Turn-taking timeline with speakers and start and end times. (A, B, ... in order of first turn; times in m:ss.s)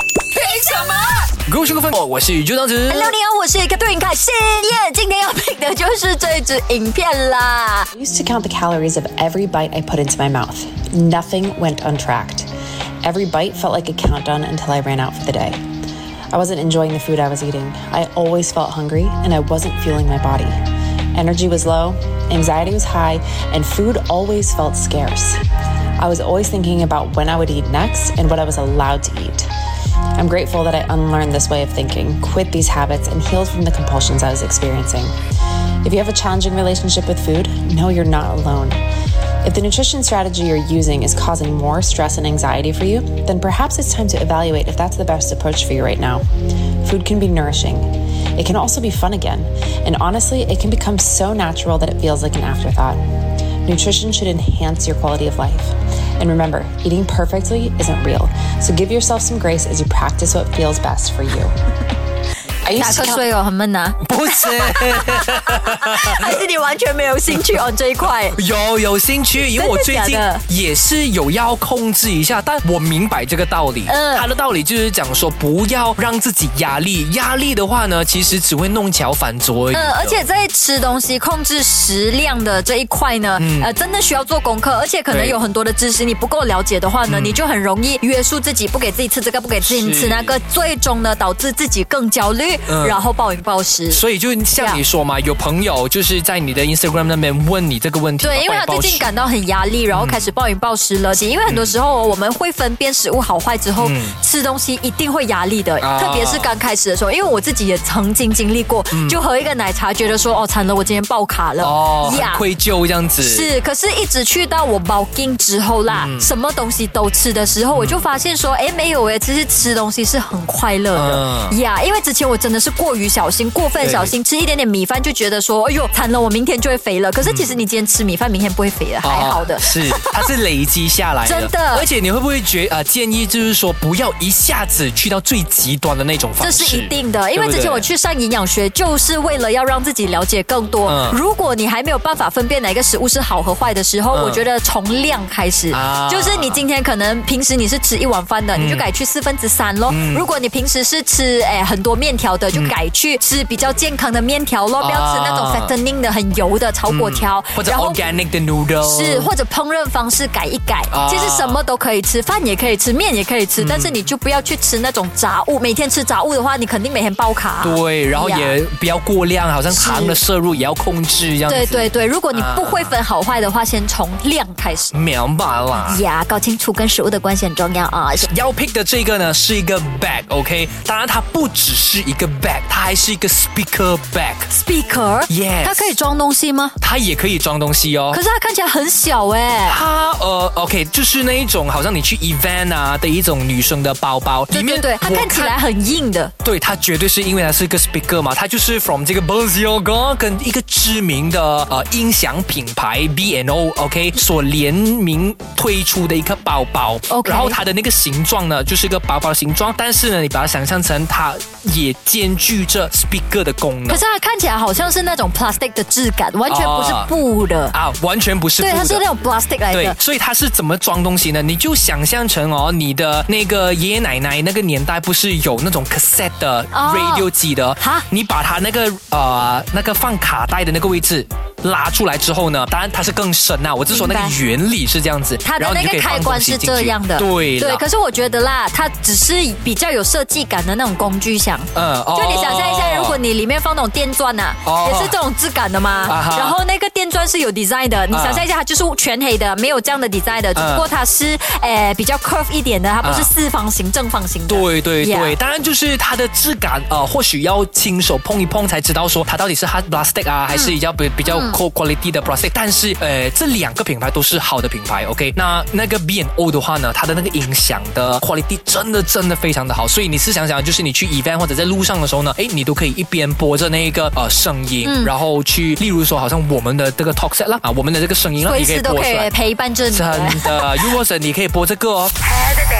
0:00.3-0:01.3 A
0:01.4-0:03.1 B
0:02.9-0:07.9 A
0:07.9-0:12.5 C
0:13.0-0:15.6 C
0:16.3-0:20.5 C
0:21.1-0:25.4 C
0:26.0-0:29.5 C
0:30.2-0:35.1 C
0:35.8-0:38.8 C
0:39.4-0:46.2 C
0:46.8-0:53.0 C
0:53.6-1:01.5 C
1:02.6-1:03.2 C
1:02.7-1:08.4 A
1:04.0-1:06.4 B
1:08.3-1:20.2 B
1:09.4-1:10.4 A
1:13.8-1:14.3 A
1:19.7-1:34.8 A
1:23.4-1:23.7 B
1:25.1-1:25.4 B
1:27.1-1:27.4 B
1:29.6-1:30.4 B
1:32.7-1:33.0 B
1:33.9-1:39.1 B
1:38.2-1:52.4 A
1:39.9-1:40.2 B
1:41.4-1:41.8 B
1:43.8-1:44.1 B
1:45.8-1:46.5 B
1:48.9-1:49.2 B
1:51.6-1:53.5 B
1:53.2-2:10.3 A
1:55.9-1:56.3 B
1:57.7-1:58.0 B
2:00.9-2:01.6 B
2:03.8-2:04.1 B
2:07.2-2:07.6 B
2:09.0-2:17.8 B
2:11.2-2:11.9 A
2:16.4-2:38.0 A
2:20.9-2:21.2 B
2:24.1-2:24.4 B
2:25.7-2:26.6 B
2:28.6-2:28.8 B
2:29.9-2:30.3 B
2:34.8-2:35.7 B
2:36.9-2:39.3 B
2:38.8-2:48.6 A
2:40.9-2:41.6 B
2:43.6-2:44.0 B
2:47.6-2:52.9 B
2:49.7-2:50.2 A
2:51.5-2:54.9 A
2:54.9-2:56.0 B
2:55.7-2:58.3 A
2:58.2-3:04.5 B
3:04.5-3:06.7 A
3:05.3-3:05.9 B
3:06.8-3:08.2 B
3:08.1-3:09.8 A
3:09.7-3:15.6 B
3:14.5-3:16.3 A
3:16.4-3:34.0 B
3:27.1-3:27.6 A
3:33.9-3:37.7 A
3:36.5-3:37.1 B
3:37.7-3:39.0 B
3:38.6-3:40.0 A
3:39.7-3:57.8 B
3:46.7-3:48.0 A
3:53.9-3:54.4 A
3:55.4-4:15.4 A
4:01.7-4:03.2 B
4:04.6-4:05.1 B
4:06.1-4:06.6 B
4:08.1-4:08.4 B
4:10.5-4:10.8 B
4:13.0-4:13.3 B
4:14.5-4:39.3 B
4:20.5-4:21.6 A
4:34.8-4:35.1 A
4:38.4-4:40.9 A
4:39.9-4:42.1 B